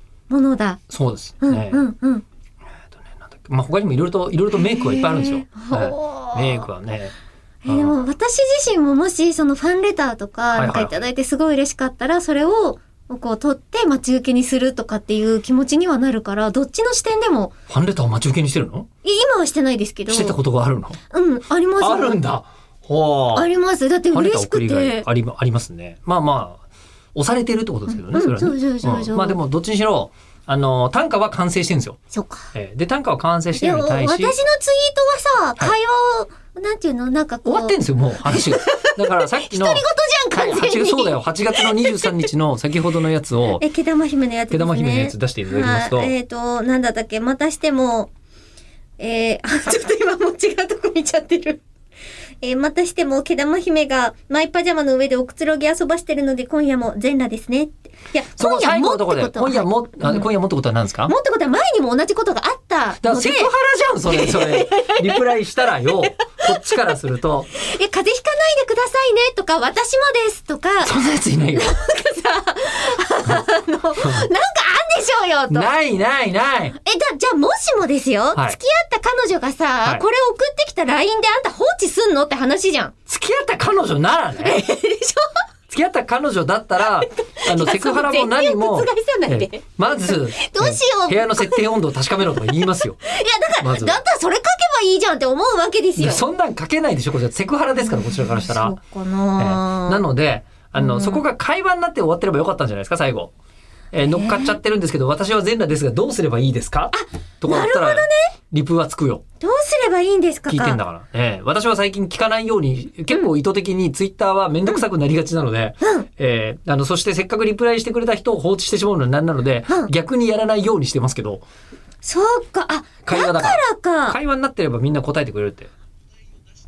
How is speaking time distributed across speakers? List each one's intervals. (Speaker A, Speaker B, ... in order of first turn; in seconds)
Speaker A: 0.3-0.8, 1.4-2.2, 4.6-6.7, 7.6-17.5, 19.0-20.4, 21.1-22.2, 23.3-25.0, 27.9-29.4, 32.1-32.5, 33.5-42.2, 43.6-48.1, 49.0-51.6, 52.4-60.2, 61.1-63.5, 64.1-66.1, 67.5-70.9, 71.5-75.7, 76.8-82.9, 84.4-85.4, 87.0-91.7, 92.5-96.2, 97.8-100.0, 100.8-101.2, 104.0-104.6, 106.9-108.3, 109.4-110.8, 115.8-116.1, 122.0-124.2
Speaker B: 0.9-1.8, 2.9-7.1, 7.7-8.0, 10.5-11.1, 17.7-18.9, 20.1-21.0, 21.8-23.5, 24.1-26.6, 27.1-32.0, 32.5-34.4, 37.4-43.6, 44.5-46.1, 58.4-61.1, 63.0-67.5, 70.8-71.7, 74.0-74.3, 75.5-76.8, 83.1-84.6, 85.7-93.0, 93.6-94.0, 96.0-98.8, 99.4-103.3, 103.9-109.2, 110.5-121.4, 123.0-125.7